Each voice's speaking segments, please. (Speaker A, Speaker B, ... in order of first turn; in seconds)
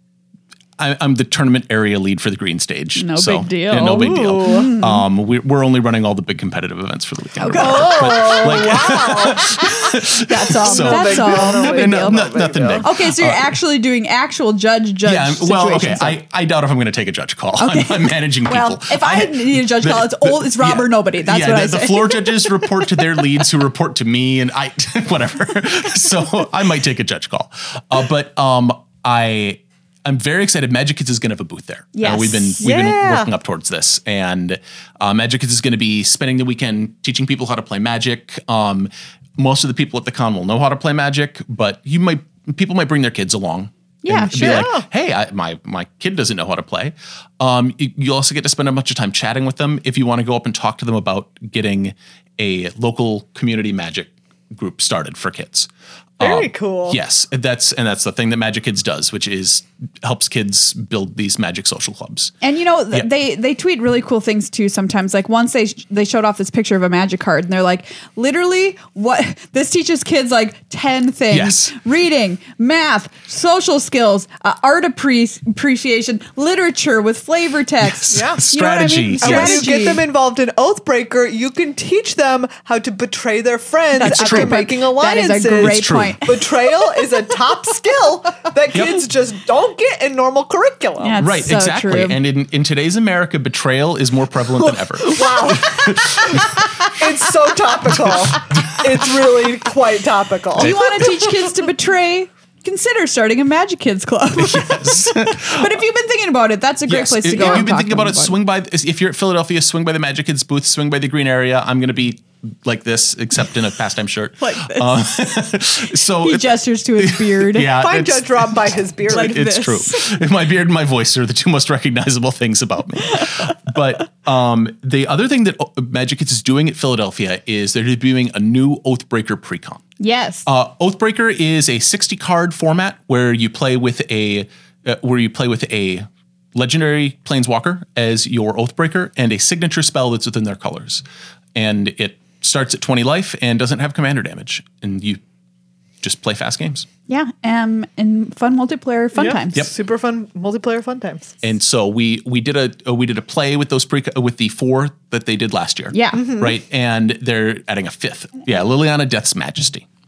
Speaker A: 0.8-13.5, 15.1-62.3, 71.3-71.8, 77.8-79.7, 84.0-84.6, 85.5-86.3, 88.7-89.1, 91.2-96.7, 98.1-99.0, 100.6-101.3, 104.4-105.8, 106.9-129.8, 130.5-141.0, 141.6-145.2, 146.0-146.9, 151.4-159.8
Speaker B: 3.0-5.0, 7.4-12.2, 12.8-16.2, 17.6-22.7, 31.9-32.6, 44.0-44.7, 62.4-80.0, 83.9-86.5, 91.0-92.2, 100.6-108.4, 114.4-114.9, 116.1-117.8, 119.1-120.2, 130.0-130.5, 147.1-149.6, 155.9-156.3
Speaker C: 3.8-4.7, 7.5-9.8, 10.6-12.9, 32.6-33.3, 44.3-44.9, 56.2-57.0, 78.1-78.4, 79.2-91.2, 94.7-100.8, 117.7-119.6, 149.2-151.3, 156.2-156.5